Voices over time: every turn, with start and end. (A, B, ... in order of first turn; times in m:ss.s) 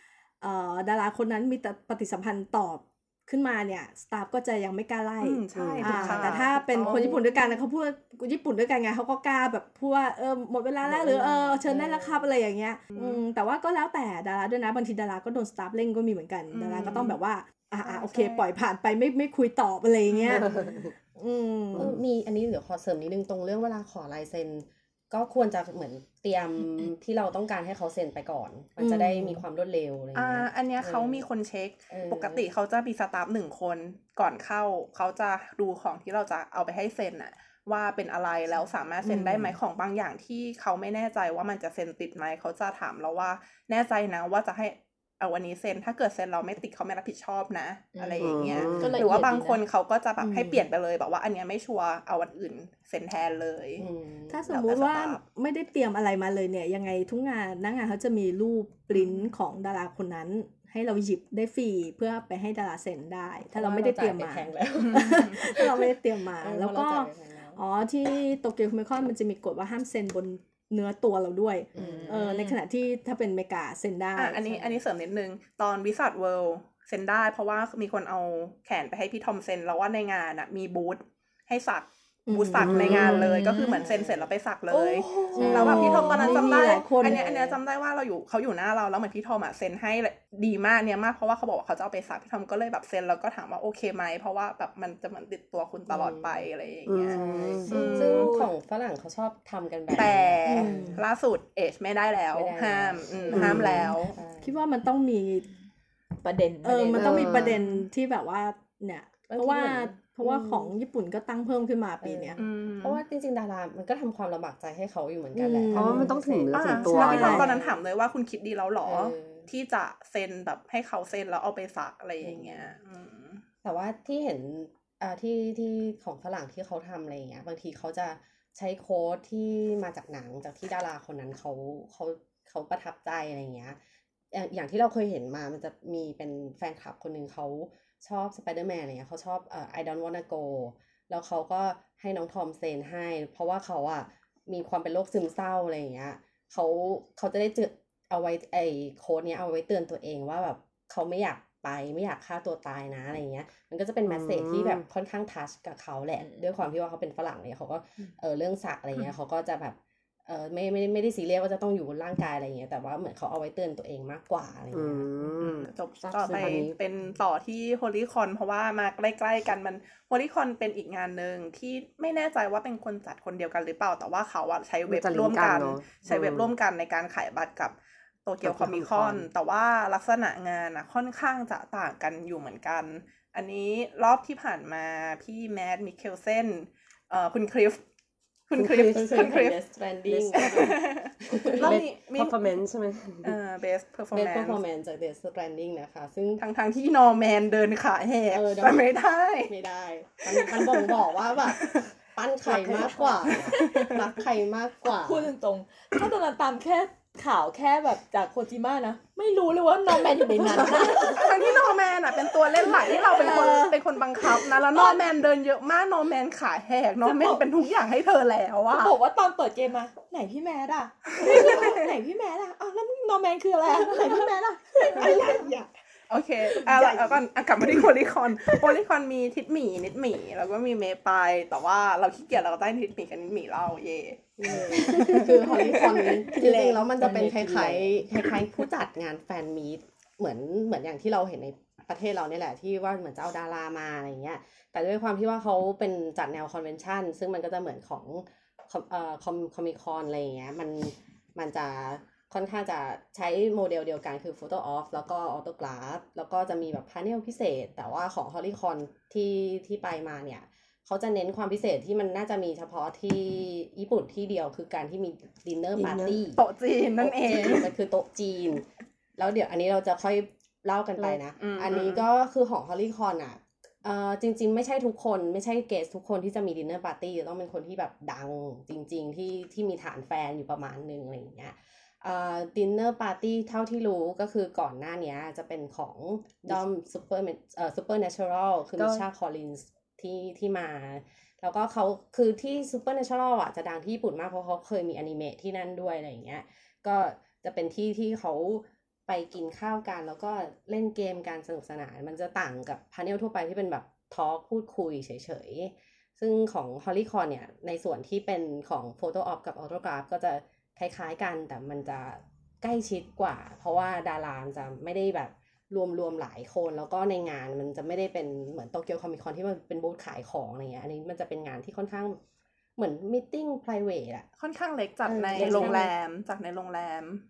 0:00.4-0:21.9 A
0:05.2-0:07.2 B
0:05.6-0:06.4 C
0:06.0-0:07.3 D
0:10.9-0:12.3 D
0:12.9-0:13.2 B
0:16.5-0:17.2 B
0:17.8-0:18.5 B
0:20.1-0:20.6 B
0:20.3-0:20.9 D
0:21.8-0:31.3 D
0:28.8-0:29.4 A
0:30.2-0:53.9 B
0:31.9-0:32.4 D
0:39.0-0:39.5 D
0:48.0-0:49.6 E
0:48.2-0:49.1 C
0:48.7-0:49.0 D
0:50.2-0:50.7 A
0:53.8-0:54.4 D
0:54.3-1:14.8 A
0:54.5-0:55.2 B
0:58.9-0:59.2 B
1:03.5-1:07.6 D
1:04.8-1:05.3 B
1:11.8-1:12.1 D
1:11.8-1:12.6 E
1:14.2-1:38.3 B
1:22.3-1:23.8 A
1:22.6-1:23.3 C
1:22.8-1:24.3 D
1:24.7-1:26.6 E
1:25.3-1:27.2 A
1:25.4-1:27.6 D
1:35.9-1:36.4 D
1:36.9-1:38.3 C
1:37.1-1:41.0 D
1:37.7-1:38.4 E
1:39.9-1:44.2 B
1:40.6-1:41.0 A
1:42.3-1:44.6 D
1:43.3-1:43.8 C
1:44.4-1:45.5 A
1:46.2-1:47.3 E
1:46.6-1:52.4 A
1:47.0-1:47.6 C
1:47.5-1:47.8 B
1:49.3-1:50.7 D
1:52.0-1:57.8 D
1:52.4-1:53.0 B
1:55.4-1:56.2 A
1:55.7-1:57.5 C
1:56.5-2:03.4 B
1:56.9-1:57.5 A
1:58.8-1:59.5 D
2:02.2-2:02.7 D
2:03.6-2:13.8 D
2:14.3-2:45.1 D
2:34.1-2:34.8 C
2:36.2-2:36.4 E
2:44.7-2:46.8 C
2:45.4-3:07.8 B
2:46.3-2:46.6 D
2:54.9-2:56.5 C
2:58.4-2:59.3 C
3:08.5-3:09.6 B
3:08.6-3:11.8 D
3:10.1-3:10.8 C
3:10.3-3:12.6 B
3:11.4-3:13.4 C
3:13.2-3:14.6 B
3:14.1-3:16.4 D
3:16.4-3:19.5 B
3:18.3-3:18.9 D
3:19.5-3:25.3 D
3:20.3-3:21.9 B
3:22.5-3:23.3 E
3:23.3-3:24.0 B
3:24.9-3:31.6 E
3:30.4-3:31.5 A
3:31.0-3:38.9 B
3:32.6-3:33.8 E
3:32.6-3:33.6 A
3:37.0-3:37.4 E
3:38.7-3:45.7 E
3:41.2-3:41.8 B
3:41.3-3:41.8 A
3:43.8-3:44.2 A
3:45.0-3:45.5 A
3:46.1-3:56.2 B
3:54.4-4:26.4 D
3:54.7-3:56.1 A
3:56.4-3:56.8 E
3:56.9-3:58.0 C
4:25.8-4:26.2 C
4:26.4-4:27.7 B
4:27.0-4:28.6 D
4:29.2-5:22.2 D
4:31.4-4:32.0 B
4:48.8-4:49.0 C
5:22.8-5:24.3 D
5:24.4-5:27.2 B
5:25.1-5:25.9 D
5:25.4-5:25.8 A